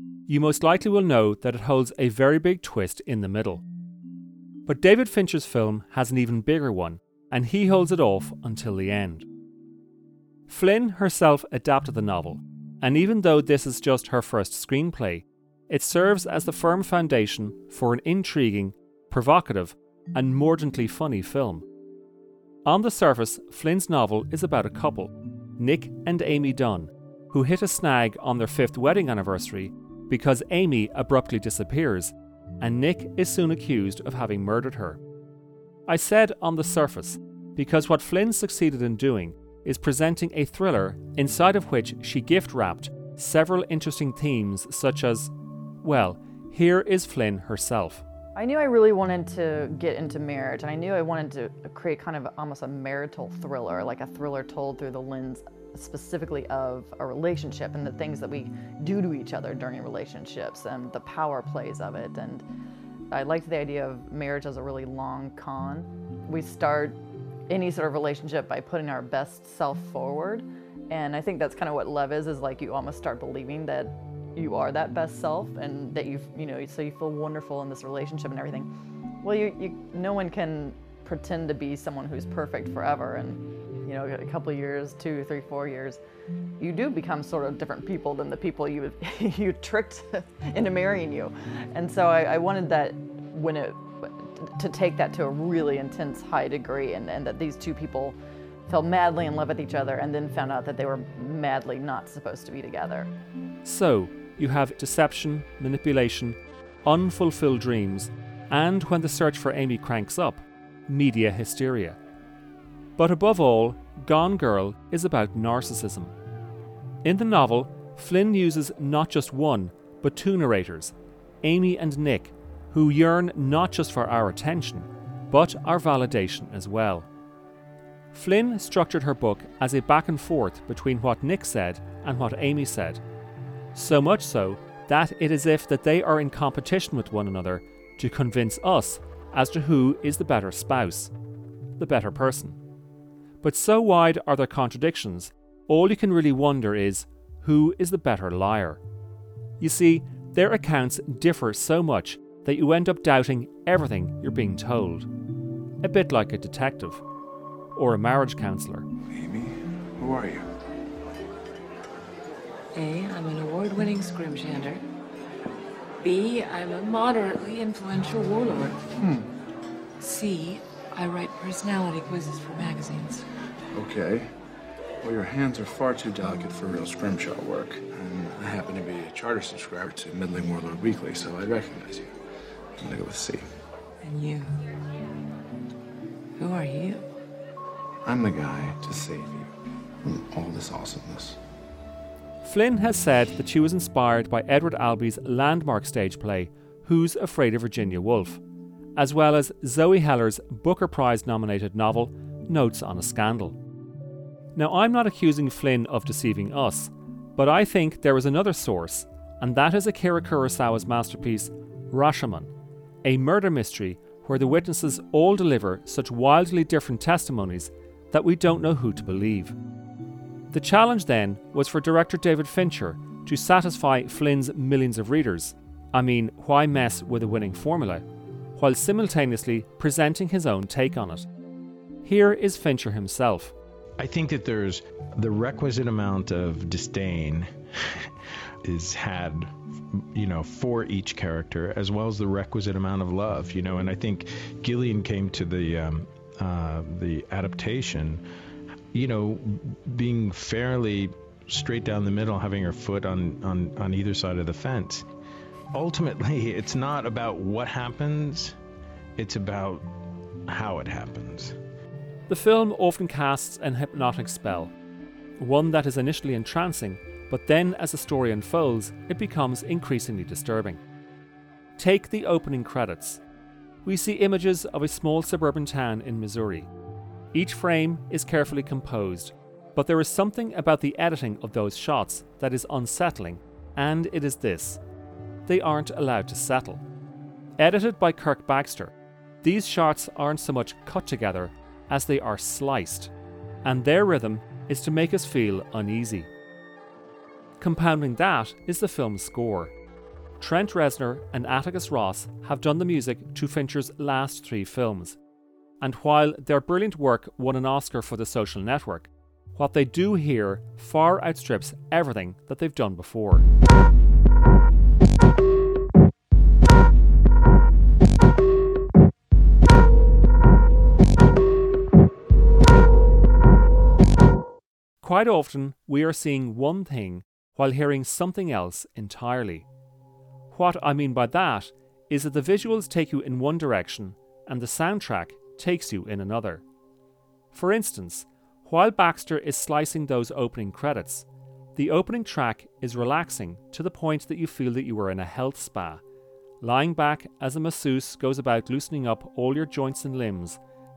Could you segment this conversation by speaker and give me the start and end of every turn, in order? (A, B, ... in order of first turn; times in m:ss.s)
0:00.3-0:03.6 A
0:04.7-0:09.3 A
0:10.5-0:21.7 A
0:22.7-0:35.0 A
0:35.9-0:45.3 A
0:45.8-0:48.0 A
0:48.3-1:02.4 B
1:03.1-1:07.0 B
1:07.5-1:18.7 B
1:19.2-1:26.0 B
1:26.6-1:38.2 B
1:38.7-1:43.1 B
1:43.6-1:52.0 A
1:53.0-1:56.1 A
1:57.0-2:07.1 A
2:08.1-2:13.0 A
2:13.8-2:21.1 A
2:21.8-2:22.6 A
2:23.4-2:28.8 A
2:29.6-2:35.1 A
2:35.8-2:37.0 A
2:37.8-2:38.9 A
2:39.1-2:40.4 C
2:42.8-2:44.8 D
2:46.0-2:48.8 D
2:49.0-2:49.3 C
2:50.0-2:53.2 D
2:53.7-2:54.3 C
2:55.0-3:02.1 C
3:02.8-3:03.5 C
3:04.0-3:04.6 D
3:06.4-3:07.0 D
3:08.0-3:09.5 C
3:10.0-3:11.4 C
3:12.4-3:18.4 A
3:19.0-3:23.6 A
3:24.6-3:32.5 A
3:33.0-3:39.6 A
3:40.5-3:48.0 A
3:48.6-3:51.3 A
3:52.0-3:53.5 A
3:54.0-3:57.5 E
3:58.6-3:59.5 E
4:00.1-4:08.2 E
4:08.9-4:15.0 E
4:15.7-4:18.5 E
4:19.2-4:19.9 E
4:20.5-4:21.5 E
4:22.3-4:24.7 A
4:25.4-4:30.8 A
4:31.8-4:33.2 A
4:33.8-4:36.7 A
4:37.3-4:44.8 A
4:45.4-4:46.8 A
4:47.6-4:53.1 A
4:53.6-4:56.3 A
4:57.6-4:59.7 A
5:00.4-5:05.2 A
5:05.8-5:13.5 A
5:25.0-5:29.7 A
5:30.5-5:36.6 A
5:37.5-5:46.0 A
5:46.6-5:50.6 A